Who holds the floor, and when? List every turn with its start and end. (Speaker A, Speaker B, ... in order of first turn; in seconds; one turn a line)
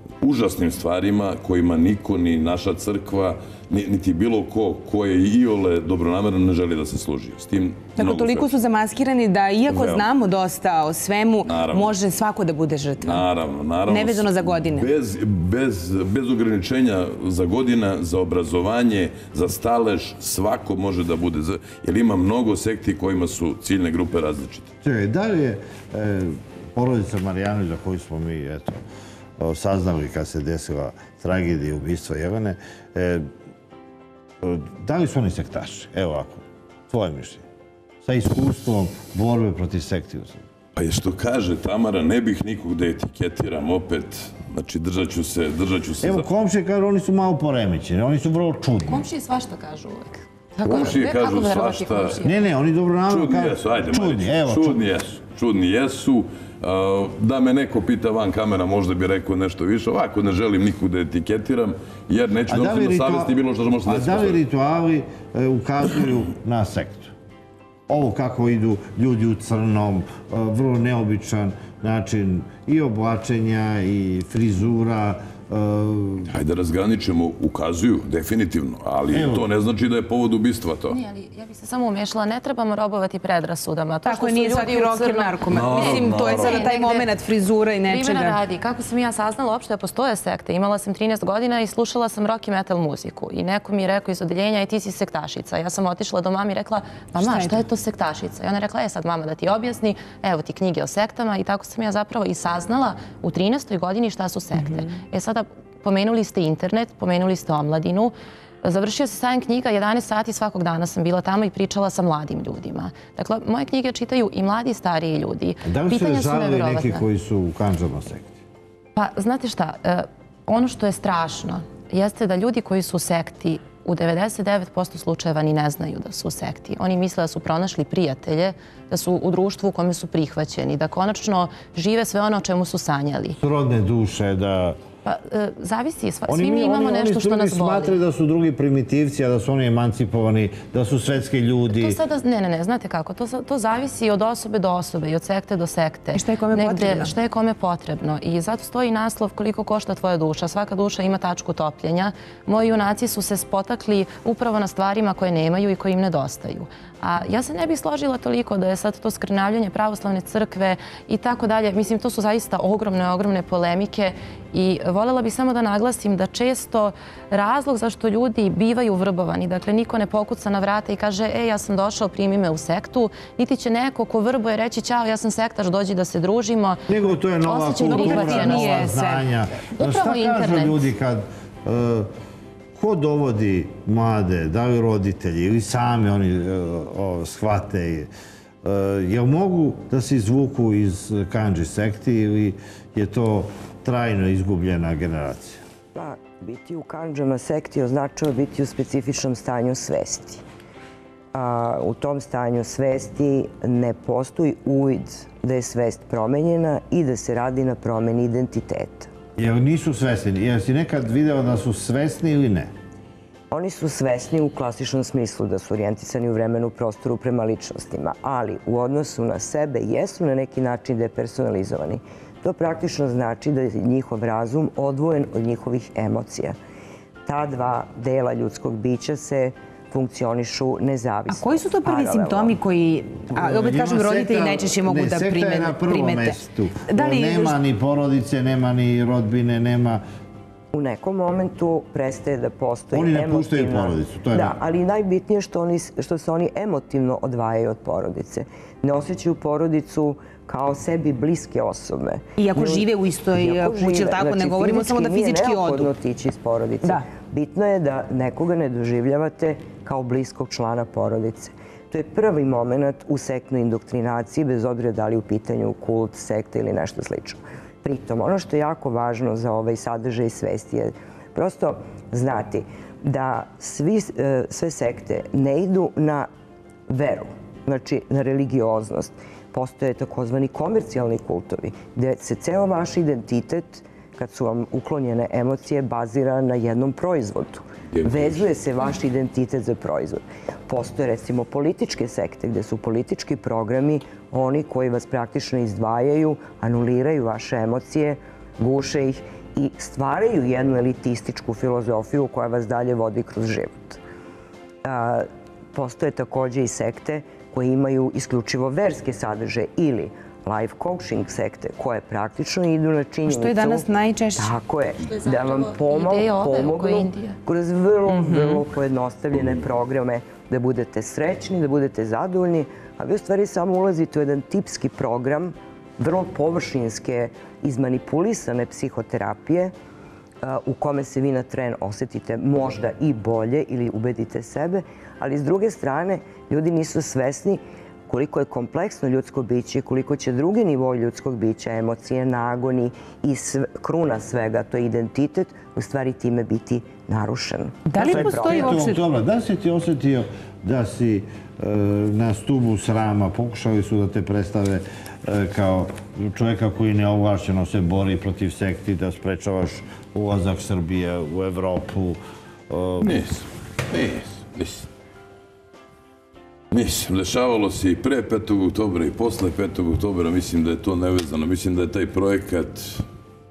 Speaker A: 0.2-8.5
Speaker B: 8.0-13.3
Speaker A: 9.7-10.1
Speaker A: 11.4-11.9
Speaker A: 13.0-24.7
Speaker B: 13.9-14.9
Speaker C: 24.8-28.8
Speaker C: 29.4-33.3
Speaker C: 34.4-37.4
Speaker C: 38.0-40.4
Speaker A: 40.8-46.3
Speaker C: 46.0-49.0
Speaker D: 48.9-52.3
Speaker A: 50.6-52.2
Speaker C: 52.2-54.8
Speaker A: 53.1-64.4
Speaker C: 62.5-63.3
Speaker C: 63.9-67.1
Speaker C: 67.9-76.3
Speaker A: 76.3-81.0
Speaker C: 79.1-79.5
Speaker D: 80.9-87.1
Speaker B: 84.0-88.4
Speaker A: 85.5-86.6
Speaker D: 87.9-117.0
Speaker B: 97.2-97.6
Speaker B: 104.6-104.8
Speaker C: 115.7-118.3
Speaker D: 119.0-133.4
Speaker C: 133.4-134.8
Speaker D: 135.1-138.0
Speaker C: 136.3-142.0
Speaker D: 141.8-176.9
Speaker B: 146.1-147.1
Speaker C: 176.9-182.1
Speaker D: 177.4-179.0
Speaker B: 177.8-179.3
Speaker D: 179.8-180.8
Speaker C: 182.8-188.1
Speaker C: 188.6-195.6
Speaker E: 195.9-200.4
Speaker E: 201.3-209.1
Speaker C: 209.4-212.7
Speaker E: 213.5-226.6
Speaker E: 227.3-232.6
Speaker B: 231.3-237.6
Speaker C: 233.3-240.0
Speaker E: 240.7-276.3
Speaker C: 242.9-244.6
Speaker B: 252.4-255.9
Speaker E: 276.9-304.0
Speaker A: 287.9-288.4
Speaker E: 304.8-313.9
Speaker B: 313.3-314.5
Speaker E: 314.4-329.7
Speaker D: 315.1-317.4
Speaker B: 318.1-318.6
Speaker E: 330.4-348.8
Speaker B: 347.9-349.0
Speaker C: 348.0-363.2
Speaker A: 363.0-364.9
Speaker A: 366.7-373.1